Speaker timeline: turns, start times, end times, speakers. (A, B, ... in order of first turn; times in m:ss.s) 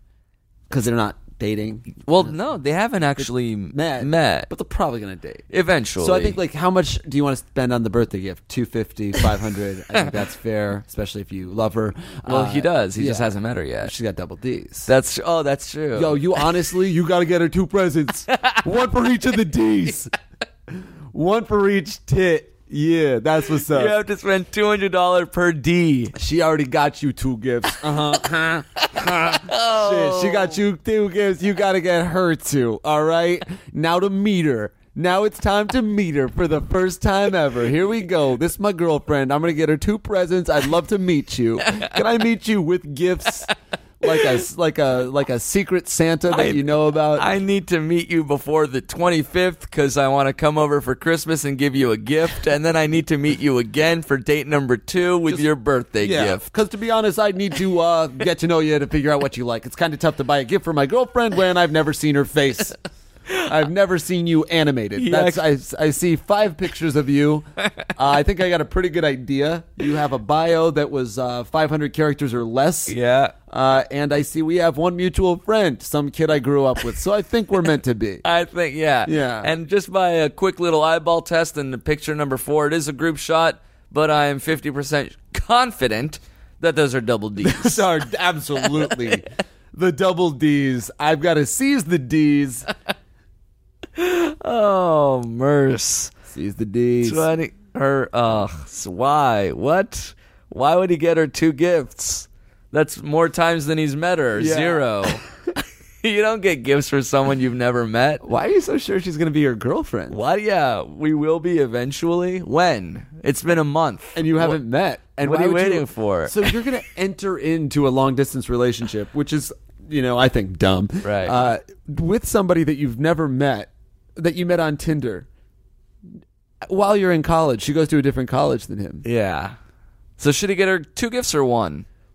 0:00.7-0:02.3 A
0:02.0-0:04.5 B
0:03.2-0:05.5 A
0:05.5-0:06.4 B
0:06.0-0:13.3 A
0:12.3-0:13.9 B
0:13.8-0:14.9 A
0:14.9-0:16.4 B
0:15.9-0:20.1 A
0:18.3-0:18.6 B
0:20.7-0:24.0 A
0:23.7-0:26.2 B
0:26.2-0:43.5 A
0:28.8-0:30.6 B
0:44.0-0:47.3 A
0:46.3-0:56.5 B
0:56.0-1:02.8 A
1:03.4-1:13.0 A
1:05.0-1:05.4 B
1:12.9-1:13.3 B
1:13.5-1:18.2 A
1:18.2-1:27.8 B
1:19.1-1:19.5 A
1:27.4-1:32.7 A
1:34.0-1:36.1 B
1:36.3-1:37.3 A
1:37.0-1:45.2 B
1:44.4-1:45.2 A
1:46.0-1:48.2 B
1:48.2-1:50.2 A
1:50.1-1:54.6 B
1:54.2-2:05.3 A
1:55.2-1:56.6 B
2:01.0-2:01.4 B
2:06.6-2:09.0 A
2:09.0-2:09.6 B
2:10.2-2:11.9 B